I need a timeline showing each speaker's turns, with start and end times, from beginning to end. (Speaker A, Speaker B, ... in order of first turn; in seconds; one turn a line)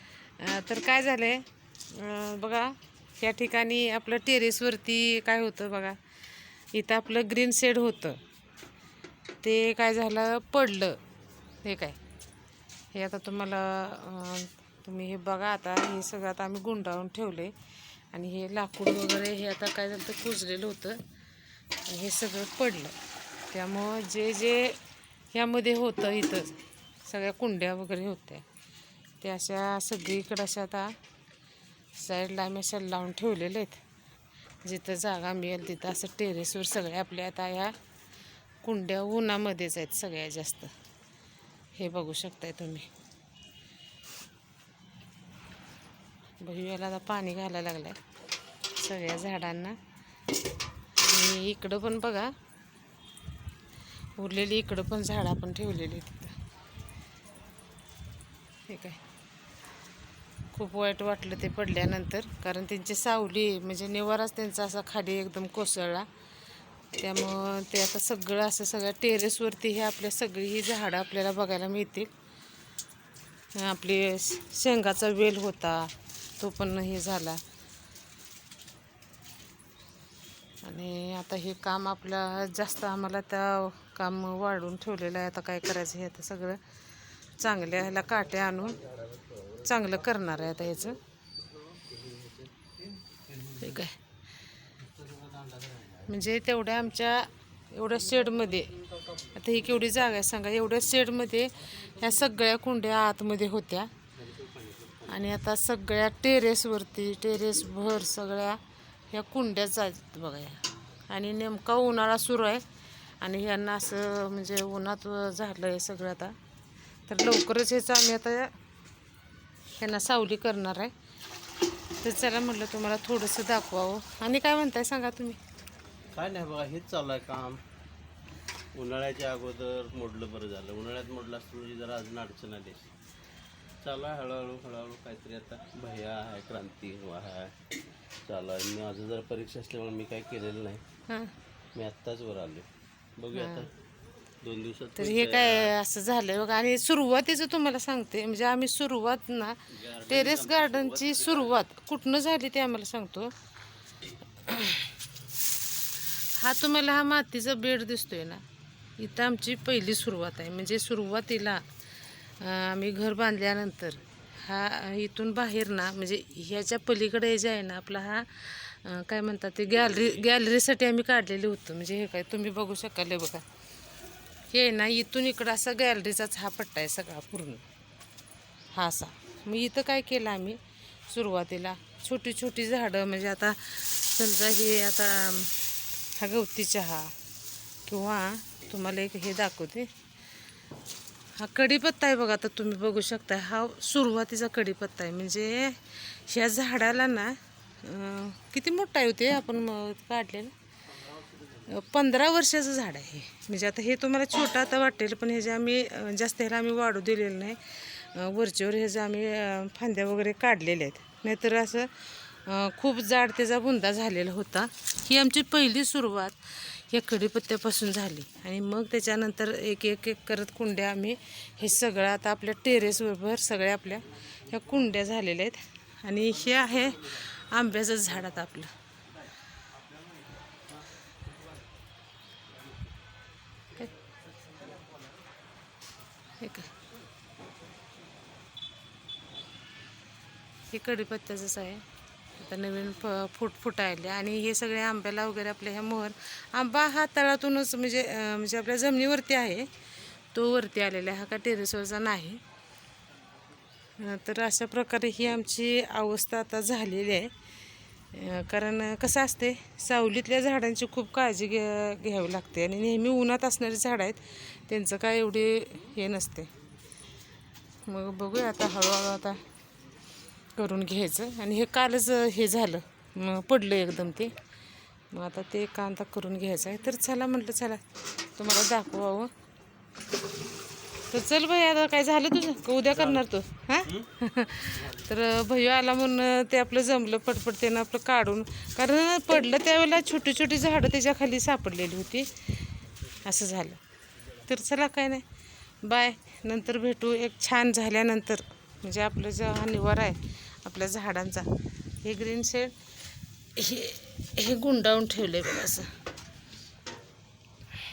Speaker A: 0.4-6.0
Speaker A: 6.7-8.2
Speaker A: 9.4-11.0
Speaker A: 11.6-12.0
Speaker A: 12.9-17.5
Speaker A: 18.1-21.0
Speaker A: 21.8-22.9
Speaker A: 23.5-24.8
Speaker A: 25.3-28.4
Speaker A: 29.2-30.9
Speaker A: 31.9-33.8
Speaker A: 34.6-37.8
Speaker A: 38.6-40.7
Speaker A: 41.7-42.9
Speaker A: 46.4-48.0
Speaker A: 48.7-49.8
Speaker A: 51.0-52.3
Speaker A: 54.2-56.4
Speaker A: 58.7-59.0
Speaker A: 60.5-66.1
Speaker A: 67.0-72.1
Speaker A: 73.5-77.4
Speaker A: 80.6-86.6
Speaker A: 87.4-88.9
Speaker B: 89.0-89.3
Speaker A: 89.6-91.0
Speaker B: 91.4-93.8
Speaker A: 93.6-94.0
Speaker B: 94.8-96.1
Speaker A: 96.0-103.9
Speaker B: 104.2-105.2
Speaker A: 105.1-108.6
Speaker A: 109.1-112.6
Speaker A: 113.2-116.3
Speaker A: 117.1-118.5
Speaker A: 119.8-120.9
Speaker A: 122.0-125.4
Speaker B: 126.1-127.6
Speaker B: 128.7-132.9
Speaker B: 133.8-137.6
Speaker B: 138.2-140.8
Speaker A: 141.1-141.3
Speaker B: 141.7-143.7
Speaker A: 143.3-143.7
Speaker B: 144.4-145.7
Speaker A: 145.0-153.3
Speaker B: 149.7-151.6
Speaker A: 154.4-154.9
Speaker A: 156.3-158.4
Speaker A: 159.0-161.6
Speaker A: 162.4-173.4
Speaker A: 174.5-177.6
Speaker A: 178.7-187.1
Speaker A: 187.8-189.9
Speaker A: 191.3-200.5
Speaker A: 201.6-228.7
Speaker A: 236.4-236.7
Speaker A: 240.7-241.8
Speaker A: 242.3-249.7
Speaker A: 250.3-252.4
Speaker A: 254.0-257.3
Speaker A: 258.1-266.5
Speaker A: 267.8-269.4
Speaker A: 270.6-274.4
Speaker A: 275.1-277.8
Speaker A: 278.4-279.3
Speaker A: 281.1-292.4
Speaker A: 293.2-293.8
Speaker A: 294.4-295.2
Speaker A: 295.8-301.5
Speaker A: 302.0-302.7
Speaker A: 303.6-305.9